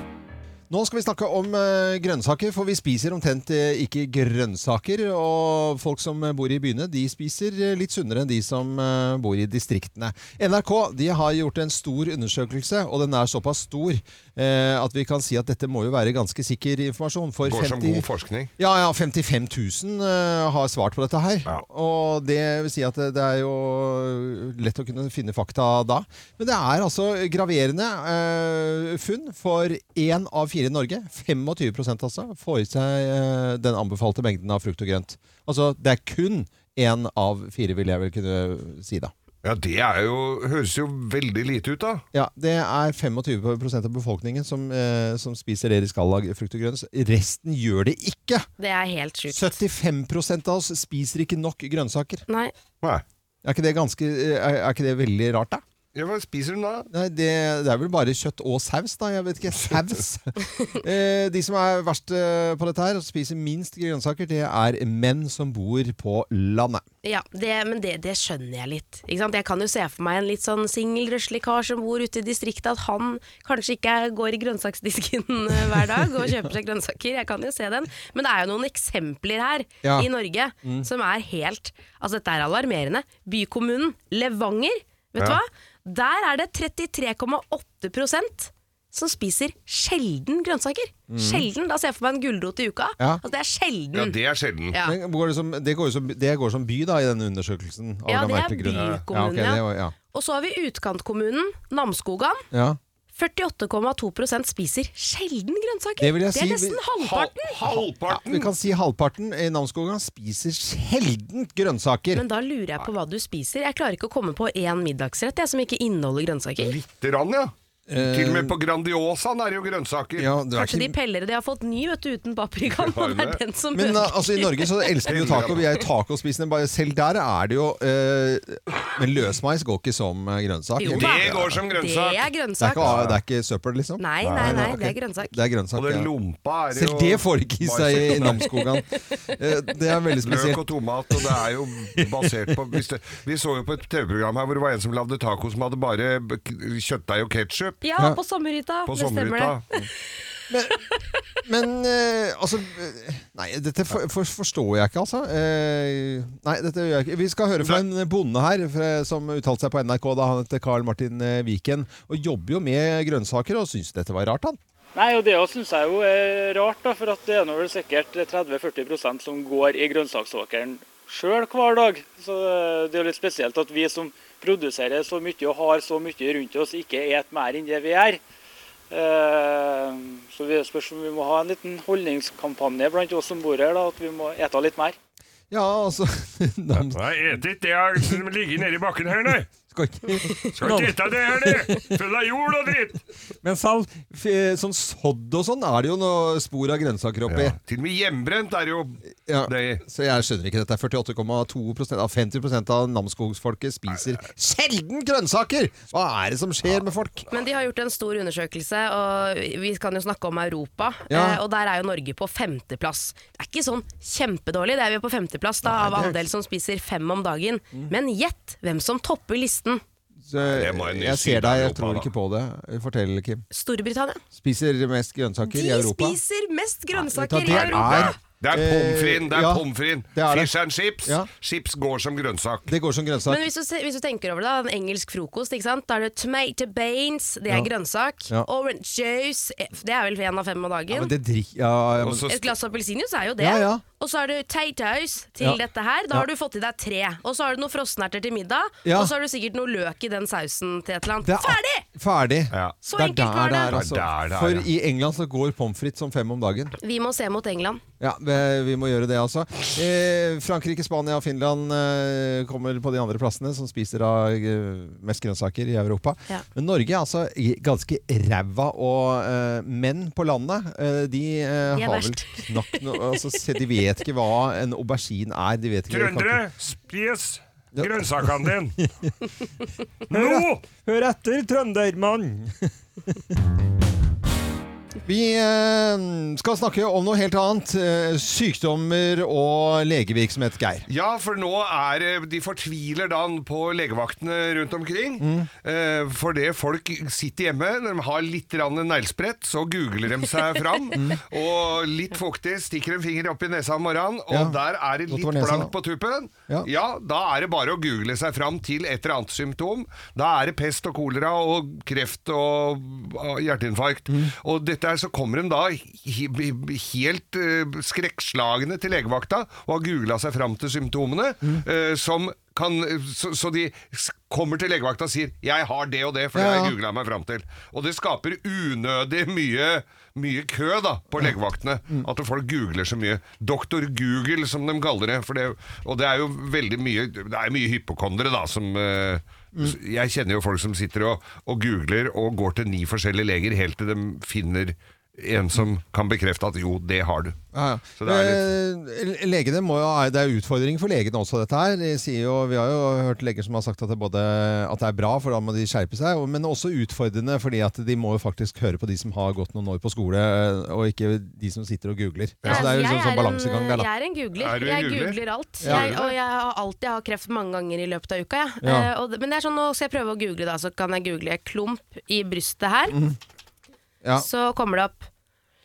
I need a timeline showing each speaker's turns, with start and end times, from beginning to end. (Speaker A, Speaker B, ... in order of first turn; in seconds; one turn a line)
Speaker A: 0.7-18.1
Speaker B: 17.4-18.5
Speaker A: 18.6-39.1
Speaker B: 39.4-42.0
Speaker A: 42.1-48.5
Speaker C: 48.6-49.6
Speaker A: 49.3-52.2
Speaker C: 52.3-52.5
Speaker A: 53.4-55.6
Speaker B: 56.0-56.9
Speaker A: 56.9-66.8
Speaker C: 67.0-94.2
Speaker A: 79.8-80.1
Speaker A: 91.1-91.5
Speaker B: 93.9-94.8
Speaker A: 94.8-99.9
Speaker C: 98.1-102.5
Speaker B: 98.7-99.0
Speaker A: 102.5-102.8
Speaker C: 103.2-107.7
Speaker A: 106.0-106.8
Speaker B: 107.0-108.5
Speaker A: 108.1-112.2
Speaker C: 112.1-116.8
Speaker B: 116.6-120.3
Speaker A: 117.9-118.6
Speaker A: 120.2-121.0
Speaker C: 120.5-125.5
Speaker B: 122.7-123.4
Speaker A: 123.7-131.6
Speaker B: 125.1-125.6
Speaker C: 130.8-132.9
Speaker B: 130.8-132.3
Speaker A: 132.6-136.1
Speaker B: 132.8-133.2
Speaker C: 134.0-135.3
Speaker B: 134.2-134.6
Speaker B: 135.8-138.5
Speaker A: 136.7-140.6
Speaker B: 140.2-147.8
Speaker A: 142.3-142.6
Speaker C: 147.8-149.6
Speaker B: 148.8-149.7
Speaker A: 150.5-150.8
Speaker A: 151.4-164.6
Speaker D: 165.0-178.2
Speaker D: 178.9-184.9
Speaker A: 185.5-187.2
Speaker E: 186.9-189.5
Speaker A: 189.7-191.9
Speaker E: 190.6-193.0
Speaker A: 193.4-197.6
Speaker B: 197.3-199.8
Speaker A: 199.3-207.3
Speaker C: 207.3-219.8
Speaker A: 211.1-211.4
Speaker A: 215.7-216.2
Speaker A: 220.3-223.4
Speaker B: 220.4-222.1
Speaker C: 223.5-224.2
Speaker A: 224.3-226.2
Speaker C: 225.4-228.1
Speaker A: 226.9-230.5
Speaker B: 227.5-232.7
Speaker A: 232.7-233.5
Speaker C: 233.3-241.1
Speaker A: 240.9-242.3
Speaker B: 242.0-242.5
Speaker C: 242.3-251.8
Speaker A: 243.4-243.8
Speaker A: 248.8-249.1
Speaker A: 251.2-256.7
Speaker C: 252.8-253.8
Speaker B: 253.7-254.7
Speaker C: 256.8-257.8
Speaker A: 258.0-276.5
Speaker C: 271.7-272.8
Speaker E: 275.9-278.8
Speaker A: 277.7-278.3
Speaker E: 280.1-281.9
Speaker A: 280.1-282.5
Speaker A: 285.1-290.9
Speaker B: 290.9-347.4
Speaker A: 295.2-295.5
Speaker A: 304.3-304.6
Speaker A: 305.1-305.7
Speaker A: 326.3-326.8
Speaker A: 347.5-363.9
Speaker B: 348.0-348.4
Speaker B: 362.4-362.7
Speaker C: 362.5-373.0
Speaker B: 364.4-366.1
Speaker A: 365.6-365.9
Speaker A: 368.6-368.9
Speaker A: 372.9-373.2
Speaker C: 374.2-375.1